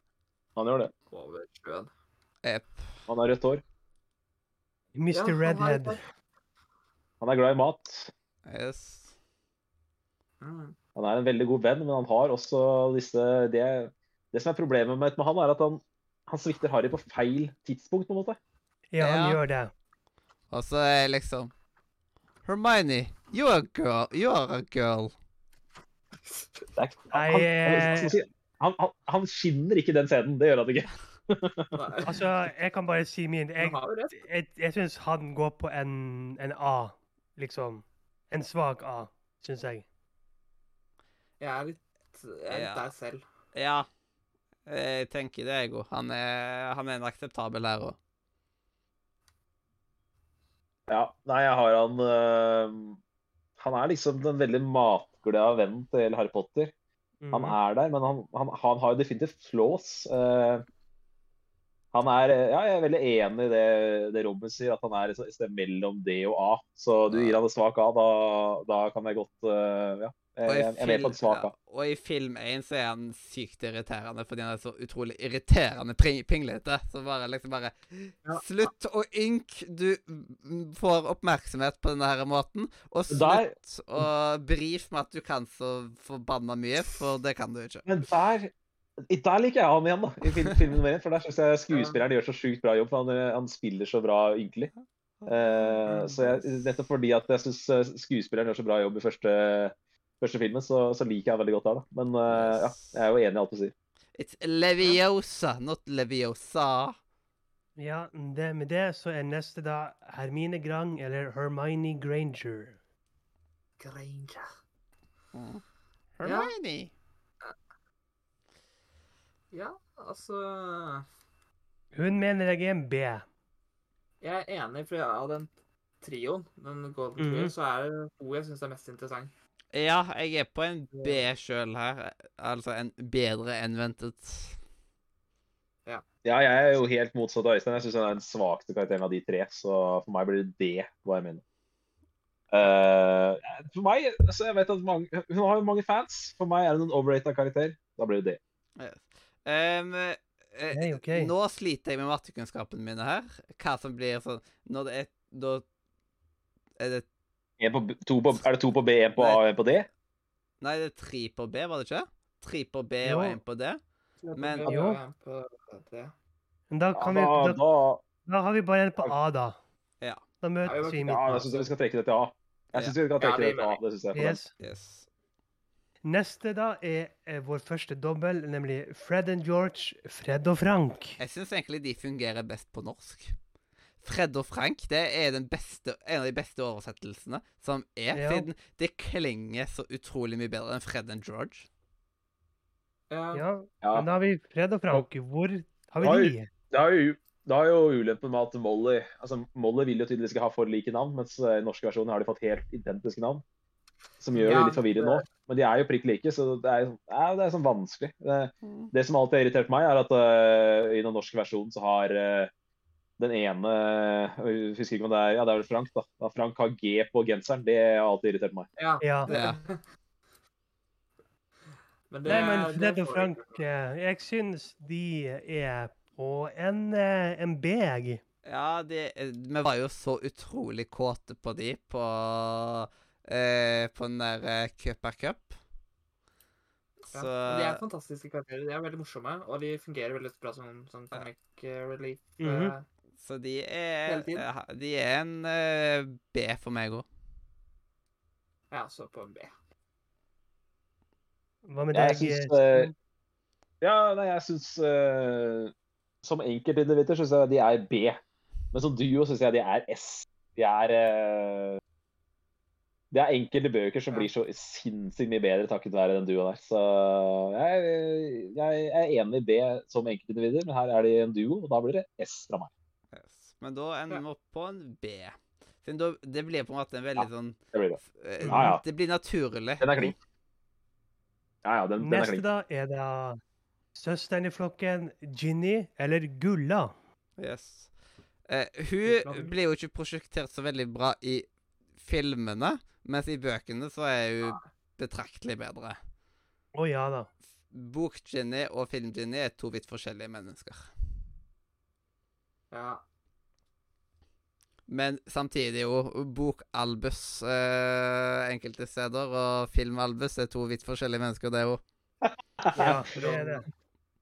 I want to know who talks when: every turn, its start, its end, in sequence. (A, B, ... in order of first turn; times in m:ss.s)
0:00.6-0:00.9 A
0:01.1-0:01.9 B
0:02.4-0:02.8 C
0:03.1-0:03.6 A
0:04.9-0:06.0 D
0:05.1-0:06.0 B
0:07.2-0:08.1 A
0:08.4-0:09.1 C
0:10.4-0:10.8 B
0:11.0-0:18.4 A
0:18.9-0:19.7 D
0:19.0-0:19.4 C
0:20.5-0:21.5 C
0:22.4-0:25.1 C
0:26.2-0:26.7 B
0:26.8-0:31.8 A
0:27.1-0:28.1 D
0:31.7-0:32.2 B
0:32.0-0:39.8 D
0:33.6-0:34.2 B
0:41.4-0:43.2 B
0:42.5-0:42.8 C
0:43.5-0:43.9 C
0:44.7-0:48.0 C
0:50.9-0:53.0 A
0:53.6-0:56.7 A
0:57.2-0:57.6 D
0:57.3-1:00.6 A
1:01.9-1:11.5 A
1:07.1-1:07.4 C
1:10.4-1:27.9 C
1:23.1-1:24.1 A
1:27.8-1:28.5 A
1:29.1-1:34.7 A
1:31.7-1:32.0 B
1:35.2-1:35.8 C
1:35.2-1:43.7 A
1:35.9-1:36.3 B
1:42.3-1:43.0 C
1:44.1-1:46.9 C
1:47.8-1:52.8 D
1:53.8-1:54.5 B
1:55.3-1:55.6 C
1:56.2-1:56.9 C
1:56.2-1:56.5 B
1:59.5-2:01.0 B
2:01.9-2:03.2 D
2:04.2-2:09.3 B
2:07.2-2:07.5 D
2:09.7-2:14.6 C
2:11.0-2:11.2 B
2:16.2-2:21.4 A
2:22.5-2:28.4 A
2:28.8-2:35.6 C
2:30.7-2:31.3 D
2:36.8-2:37.0 C
2:37.6-2:39.9 A
2:39.2-2:39.4 C
2:40.6-2:43.8 C
2:43.0-2:43.4 D
2:44.2-2:46.1 B
2:44.4-2:44.8 C
2:44.7-2:45.0 D
2:46.7-2:47.6 D
2:46.9-2:48.0 A
2:48.2-2:49.6 D
2:50.4-2:51.4 D
2:50.6-2:51.7 B
2:51.0-2:54.4 A
2:53.2-2:53.8 B
2:54.1-2:54.5 D
2:54.6-2:55.1 C
2:56.0-3:01.2 D
3:01.2-3:03.3 C
3:04.0-3:11.7 C
3:08.1-3:08.5 D
3:13.1-3:13.4 B
3:13.3-3:16.5 D
3:16.0-3:23.4 A
3:24.2-3:32.5 A
3:24.3-3:25.2 B
3:28.6-3:28.9 C
3:33.2-3:38.7 A
3:38.8-3:39.8 B
3:39.0-3:39.3 D
3:39.3-3:39.6 C
3:42.1-3:43.6 B
3:42.2-3:48.2 D
3:48.4-3:55.6 C
3:57.1-3:57.8 C
3:57.1-4:02.8 B
4:02.4-4:02.7 D
4:03.2-4:07.0 C
4:04.1-4:04.4 B
4:08.7-4:09.5 B
4:11.7-4:12.9 D
4:11.9-4:12.9 A
4:13.8-4:15.7 A
4:16.2-4:18.2 A
4:18.7-4:21.8 A
4:23.1-4:32.7 A
4:33.1-4:37.6 C
4:37.2-4:38.8 A
4:38.1-4:40.1 C
4:39.8-4:40.2 A
4:41.6-4:42.4 A
4:42.0-4:43.4 D
4:43.9-4:46.9 D
4:47.4-4:47.9 C
4:48.5-4:51.4 C
4:49.0-4:49.5 B
4:52.0-4:56.0 C
4:56.7-4:57.3 D
4:57.7-5:00.9 C
5:02.7-5:03.0 B
5:04.9-5:11.8 C
5:12.2-5:13.0 A
5:12.7-5:13.7 B
5:12.8-5:13.6 D